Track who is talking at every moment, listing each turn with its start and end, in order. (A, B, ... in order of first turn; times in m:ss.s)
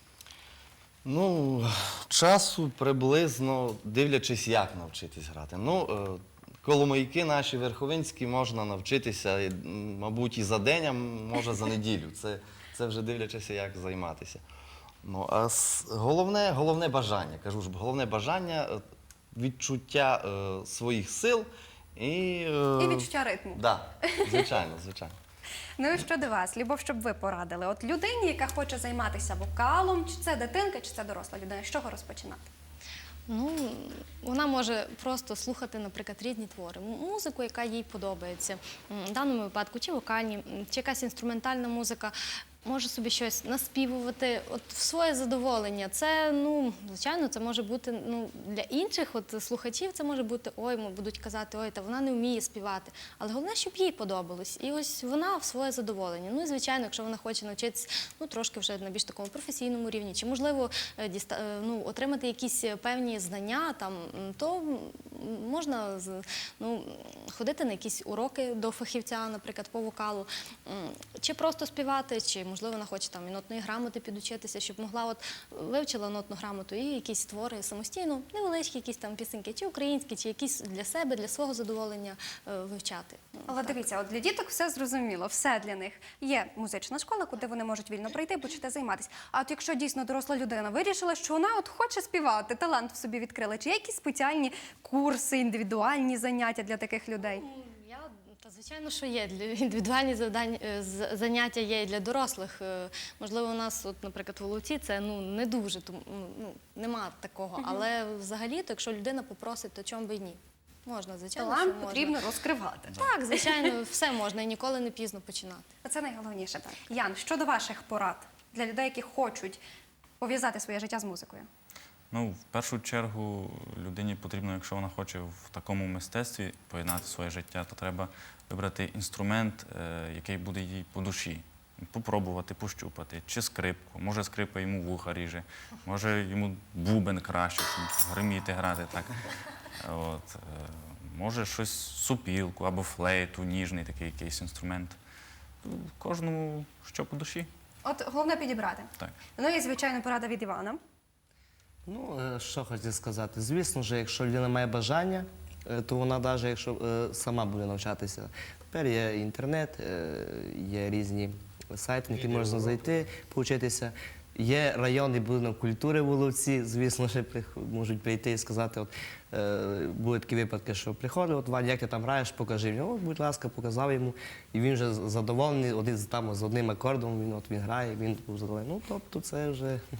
0:01.0-0:14.4 A
0:15.0-0:18.8 A
0:19.3-0:25.2 A
0:22.8-0:24.4 B
0:25.8-0:32.5 B
0:33.3-1:23.9 C
1:23.5-1:37.4 B
1:37.2-1:52.2 C
1:47.6-1:47.8 B
1:51.4-1:53.7 B
1:53.0-1:55.7 C
1:55.8-1:59.6 B
2:00.2-2:01.5 B
2:02.1-2:19.2 D
2:19.8-2:25.0 D
2:25.6-2:27.5 D
2:27.8-2:30.8 B
2:31.9-2:59.8 E
2:42.1-2:43.0 A